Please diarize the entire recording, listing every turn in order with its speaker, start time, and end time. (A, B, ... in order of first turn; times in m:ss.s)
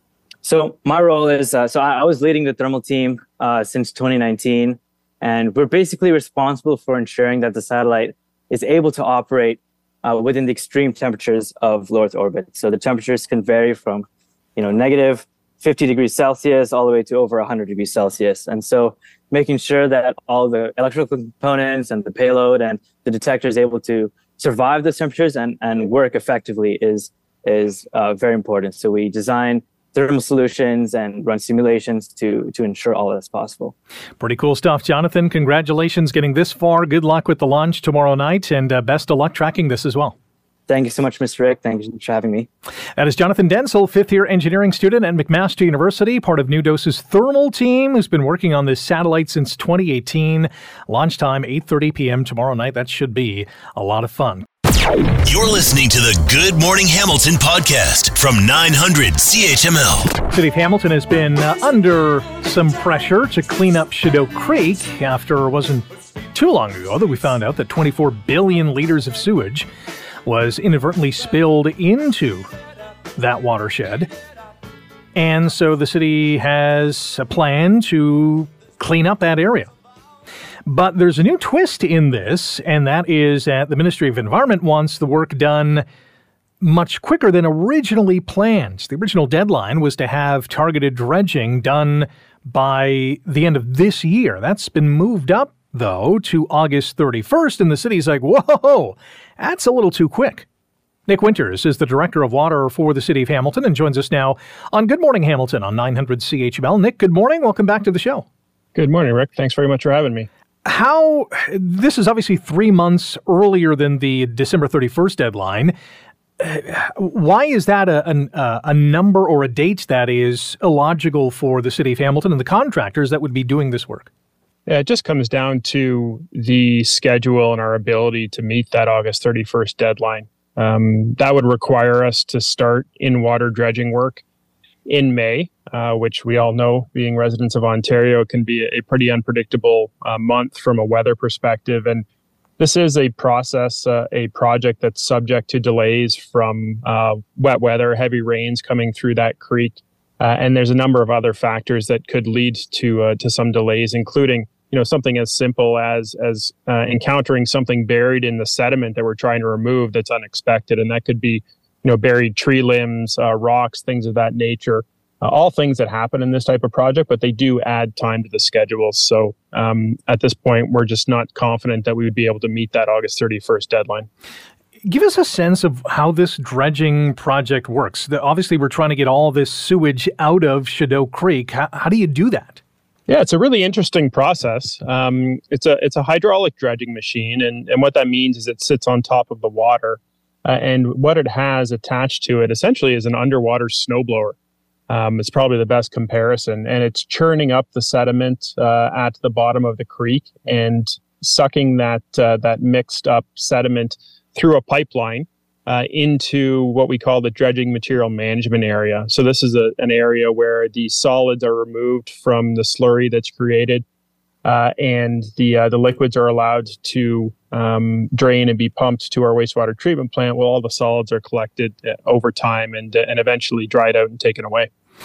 0:00.4-0:33.7 A
0:34.2-0:40.1 B
0:40.7-0:42.5 A
0:43.0-0:54.4 B
0:55.2-1:00.2 C
1:00.3-1:09.7 B
1:10.2-1:12.5 B
1:13.2-1:14.1 B
1:15.1-1:19.7 B
1:20.6-1:25.8 B
1:26.6-1:40.4 B
1:41.1-1:48.2 B
1:48.7-1:50.3 D
1:50.6-1:55.7 B
1:56.4-2:04.1 B
2:04.7-2:14.2 D
2:14.8-2:22.0 D
2:22.6-2:54.1 D
2:54.8-3:02.6 B
3:03.1-3:14.3 D
3:14.9-3:33.8 D
3:34.4-3:44.7 D